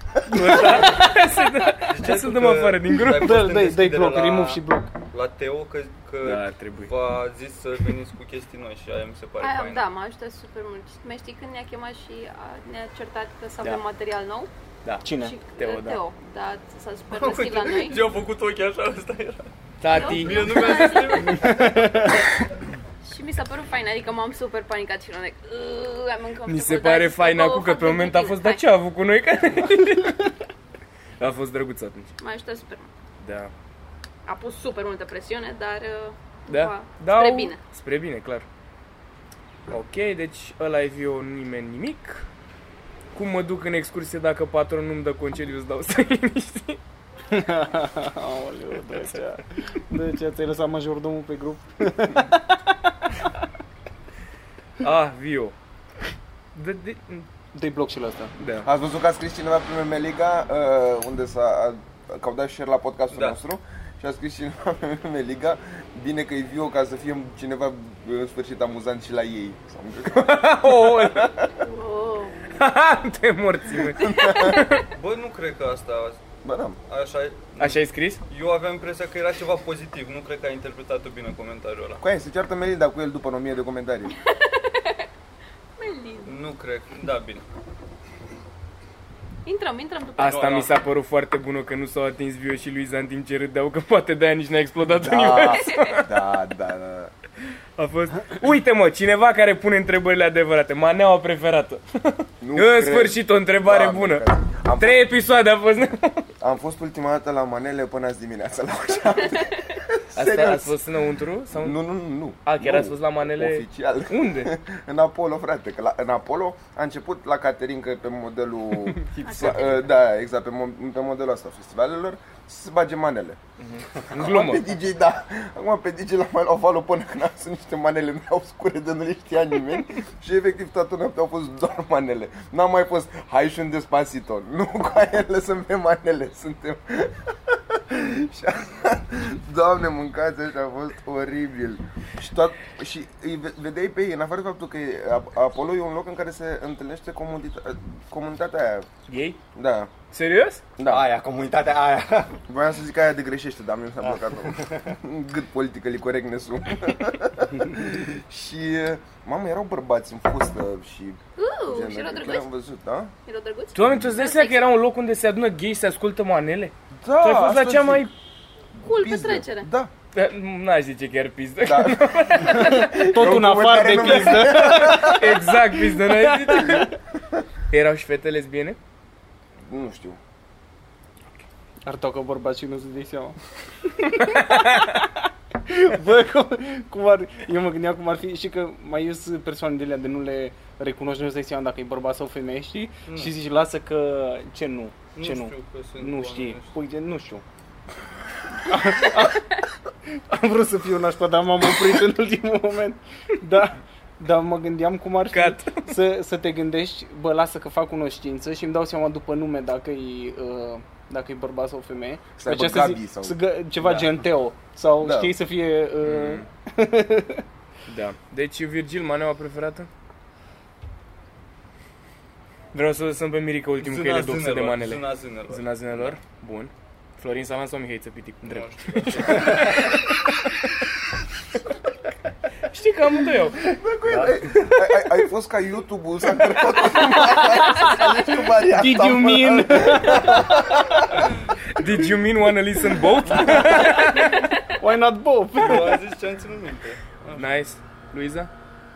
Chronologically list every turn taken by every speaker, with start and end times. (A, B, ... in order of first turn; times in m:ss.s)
0:00.2-0:03.4 A
0:01.9-0:04.6 B
0:03.2-0:04.9 C
0:05.1-0:09.9 B
0:06.2-0:06.9 A
0:09.4-0:14.5 D
0:14.8-0:16.0 A
0:15.0-0:15.3 C
0:15.1-0:18.1 D
0:17.1-0:22.0 B
0:19.8-0:20.7 A
0:19.8-0:21.6 D
0:21.4-0:22.2 C
0:23.0-0:28.7 D
0:26.4-0:30.3 A
0:31.2-0:32.1 A
0:32.2-0:32.9 D
0:33.2-0:33.5 A
0:34.2-0:37.6 D
0:36.5-0:38.4 A
0:39.7-0:42.2 A
0:43.1-0:46.8 A
0:47.3-0:52.9 C
0:48.9-0:49.4 A
0:54.8-0:55.5 A
0:56.5-0:57.3 A
0:57.5-0:58.3 C
0:58.4-0:58.7 A
0:58.6-1:11.5 E
1:03.1-1:03.4 B
1:10.1-1:11.4 A
1:11.6-1:12.4 D
1:12.5-1:14.8 A
1:13.8-1:14.7 E
1:14.9-1:16.2 B
1:16.4-1:16.8 E
1:16.9-1:22.0 B
1:17.6-1:18.2 A
1:22.0-1:24.1 E
1:25.8-1:26.4 D
1:26.2-1:27.4 B
1:29.4-1:30.6 D
1:30.2-1:36.1 A
1:30.2-1:30.7 B
1:34.8-1:37.1 E
1:35.5-1:36.0 D
1:37.8-1:46.3 A
1:42.4-1:45.0 E
1:46.4-1:50.8 E
1:50.1-1:51.8 A
1:51.6-2:03.4 E
1:52.4-1:54.5 A
1:58.8-1:59.8 A
1:59.2-1:59.6 D
2:03.6-2:04.7 A
2:04.1-2:29.0 E
2:29.1-2:29.4 A
2:29.5-2:29.9 E
2:30.1-2:30.6 A
2:30.8-2:31.1 E
2:30.8-2:32.4 F
2:32.5-2:43.1 E
2:34.0-2:34.9 F
2:41.4-2:42.5 D
2:43.2-2:44.7 D
2:43.7-2:48.1 A
2:43.9-2:44.1 E
2:47.0-2:48.1 E
2:48.8-2:49.9 E
2:48.8-2:49.7 D
2:50.1-2:53.0 A
2:51.6-2:55.5 E
2:52.5-2:55.2 C
2:54.2-2:56.9 A
2:56.0-2:56.9 C
2:57.7-2:58.8 A
2:59.6-3:00.2 E
3:01.8-3:03.4 C
3:03.9-3:17.4 C
3:04.3-3:04.8 A
3:13.1-3:13.3 B
3:15.1-3:16.7 B
3:18.6-3:19.5 C
3:20.1-3:37.4 C
3:25.3-3:26.0 A
3:32.4-3:33.4 E
3:35.0-3:35.3 E
3:36.0-3:36.5 A
3:37.9-3:39.9 A
3:42.7-3:50.9 A
3:43.8-3:46.2 B
3:48.4-3:50.0 B
3:52.7-3:53.6 A
3:53.6-4:00.8 E
3:54.0-3:54.5 F
3:57.4-3:57.9 C
3:58.7-4:00.5 C
4:01.7-4:04.5 A
4:04.8-4:06.0 C
4:05.6-4:07.6 B
4:07.3-4:08.5 A